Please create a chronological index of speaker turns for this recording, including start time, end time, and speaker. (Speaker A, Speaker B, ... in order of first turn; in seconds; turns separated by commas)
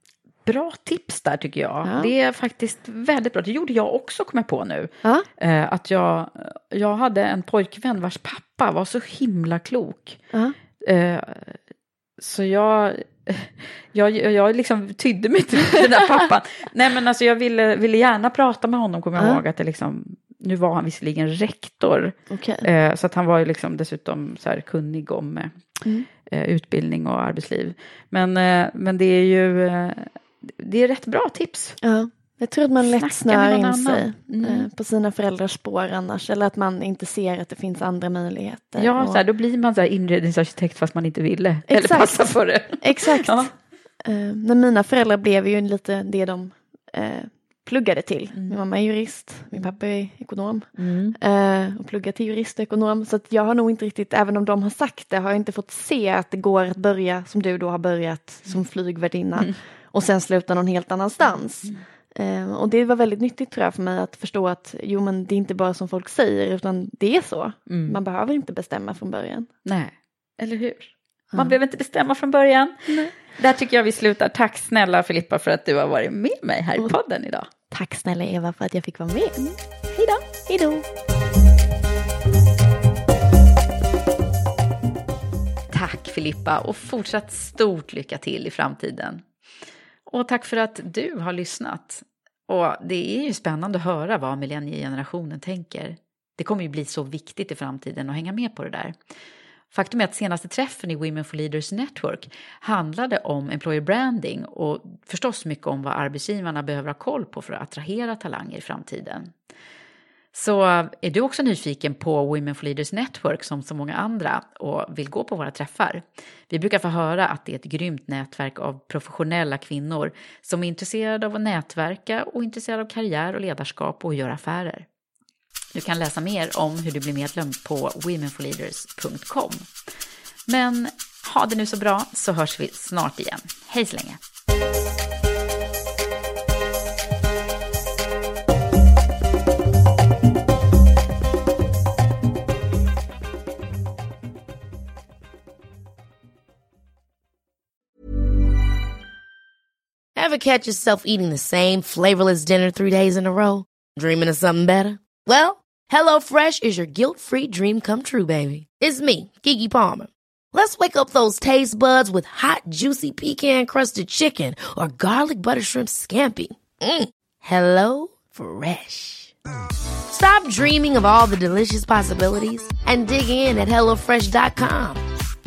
Speaker A: 0.5-10.2, Speaker B: 1.8-2.1, Speaker A: 10.8-11.6, Speaker A: 12.2-25.6, Speaker B: 22.3-22.6, Speaker A: 26.2-31.8, Speaker B: 31.8-39.2, Speaker A: 32.8-34.7, Speaker A: 38.8-43.5, Speaker B: 41.7-43.5, Speaker B: 44.0-50.7, Speaker A: 48.3-48.6, Speaker A: 50.8-51.1, Speaker B: 51.2-69.5, Speaker A: 67.7-68.0, Speaker A: 69.7-77.5, Speaker B: 77.7-79.5, Speaker A: 79.9-80.2, Speaker B: 80.5-80.8, Speaker A: 85.7-89.2, Speaker A: 90.1-98.9, Speaker A: 99.7-109.3, Speaker A: 110.3-124.8, Speaker A: 125.7-129.7, Speaker A: 130.5-134.2, Speaker C: 150.2-169.3, Speaker C: 170.1-175.0